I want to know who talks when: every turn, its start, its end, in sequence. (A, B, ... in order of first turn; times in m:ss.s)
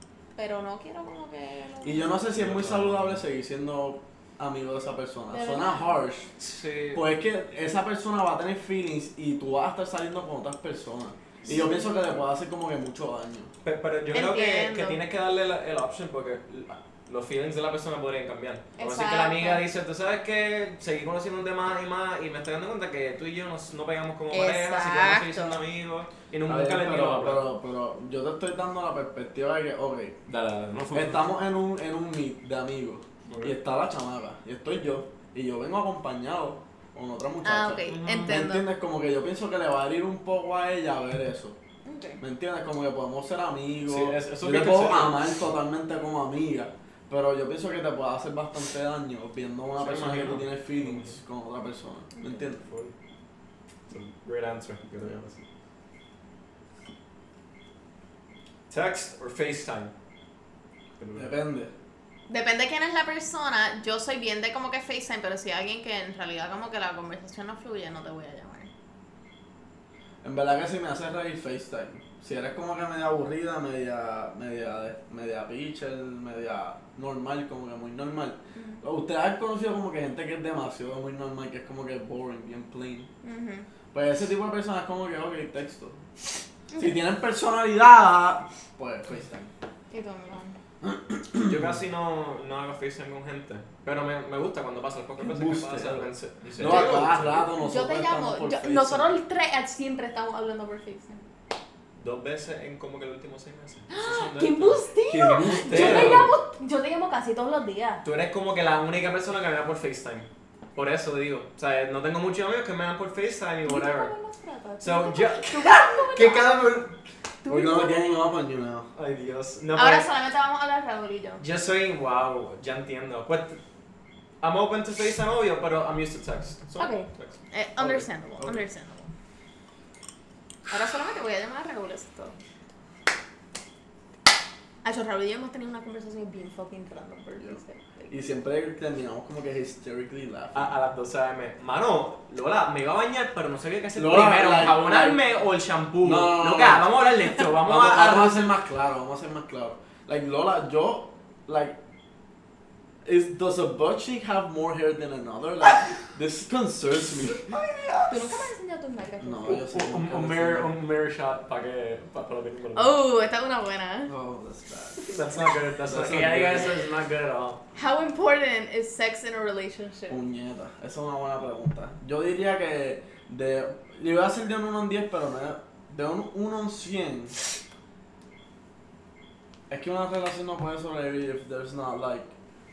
0:00.4-0:02.2 A
0:01.8-0:06.3 B
0:02.3-0:03.2 C
0:05.3-0:06.0 A
0:06.4-0:07.1 C
0:06.9-0:13.5 B
0:11.4-0:11.7 C
0:11.5-0:12.0 A
0:13.6-0:27.5 C
0:14.1-0:15.0 A
0:18.8-0:19.6 A
0:24.3-0:25.6 A
0:26.5-0:30.2 B
0:30.3-0:31.2 C
0:30.9-0:41.6 B
0:33.3-0:33.6 C
0:37.4-0:38.6 A
0:37.9-0:38.5 C
0:41.8-0:42.2 A
0:42.2-0:52.7 B
0:43.9-0:45.2 C
0:49.8-0:51.2 C
0:52.2-0:52.5 A
0:52.6-0:52.9 C
0:53.9-0:55.4 C
0:58.7-0:59.9 C
1:01.0-1:01.3 C
1:01.2-1:01.7 B
1:02.3-1:08.7 A
1:10.2-1:23.1 B
1:18.6-1:18.8 A
1:23.2-1:23.7 A
1:23.9-1:26.0 B
1:26.7-1:27.0 A
1:26.8-1:29.5 B
1:29.9-1:30.6 A
1:30.8-1:31.8 B
1:31.4-1:37.5 C
1:35.2-1:39.1 B
1:36.6-1:37.1 A
1:37.6-1:41.2 A
1:42.0-1:46.3 C
1:43.9-1:48.0 A
1:45.1-1:46.3 B
1:48.0-1:54.1 C
1:53.6-1:56.7 A
1:54.8-1:57.0 C
1:57.4-1:58.0 A
1:57.5-1:58.9 B
1:59.0-2:00.1 C
1:59.8-2:01.4 A
2:01.4-2:03.6 C
2:04.4-2:08.1 C
2:06.8-2:09.1 A
2:10.7-2:12.4 A
2:14.8-2:18.2 A
2:17.4-2:20.7 B
2:20.5-2:28.4 C
2:24.0-2:25.2 B
2:26.0-2:26.9 B
2:27.6-2:31.8 B
2:33.0-2:37.6 B
2:37.4-2:38.4 C
2:38.1-2:39.6 A
2:39.2-2:40.7 B
2:39.5-2:43.0 C
2:42.8-2:44.1 A
2:44.1-2:45.1 B
2:45.0-2:47.6 C
2:45.8-2:46.8 B
2:47.8-2:50.2 A
2:50.1-2:57.4 B
2:59.7-3:02.3 B